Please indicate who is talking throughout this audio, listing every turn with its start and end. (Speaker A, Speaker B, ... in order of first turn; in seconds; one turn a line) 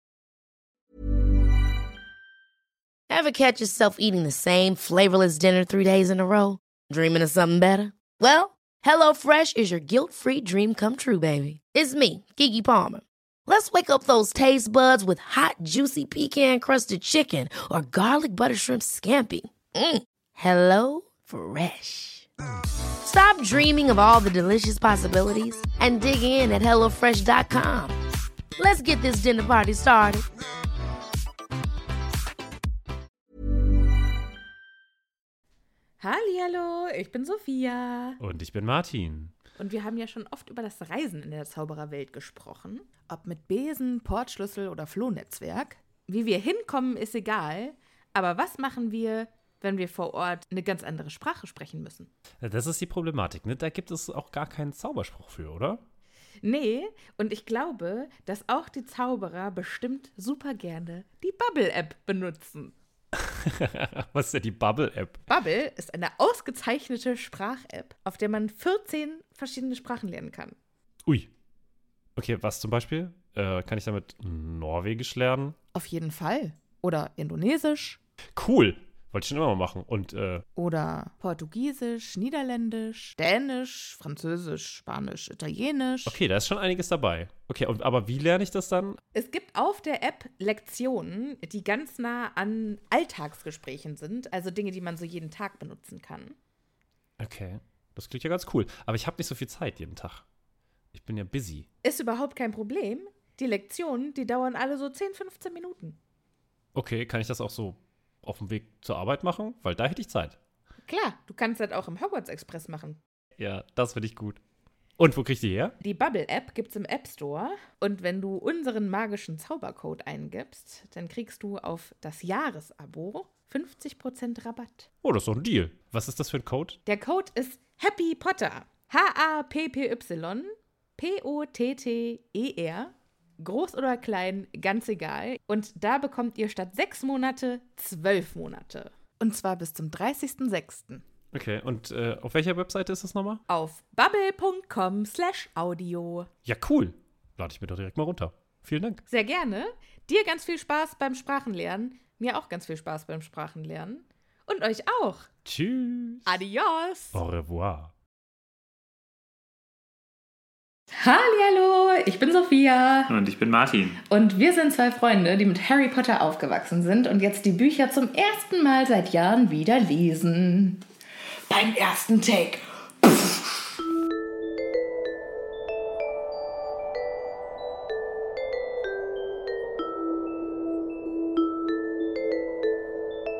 Speaker A: 3.1-22.3
Speaker A: 23.0-27.9
Speaker A: 28.6-30.2
Speaker B: 36.0-38.2
Speaker C: 38.2-39.3
Speaker B: 39.6-52.1
Speaker C: 52.4-55.8
Speaker B: 56.4-62.7
Speaker C: 63.3-65.2
Speaker B: 65.3-70.5
Speaker C: 72.2-75.5
Speaker B: 75.7-78.0
Speaker C: 78.3-80.4
Speaker B: 80.5-86.2
Speaker C: 86.0-89.0
Speaker B: 89.1-96.3
Speaker C: 97.2-100.2
Speaker C: 100.9-101.7
Speaker B: 101.8-106.0
Speaker C: 106.7-110.3
Speaker B: 110.8-113.0
Speaker C: 113.4-114.4
Speaker C: 115.0-115.7
Speaker B: 115.8-124.9
Speaker C: 125.0-126.8
Speaker B: 126.8-141.0
Speaker C: 141.3-143.4
Speaker B: 143.5-146.3
Speaker C: 146.4-149.0
Speaker B: 149.1-155.3
Speaker C: 155.4-156.3
Speaker B: 156.2-157.2
Speaker C: 157.1-157.9
Speaker B: 161.0-163.1
Speaker C: 163.1-164.0
Speaker B: 164.1-170.8
Speaker B: 171.5-173.5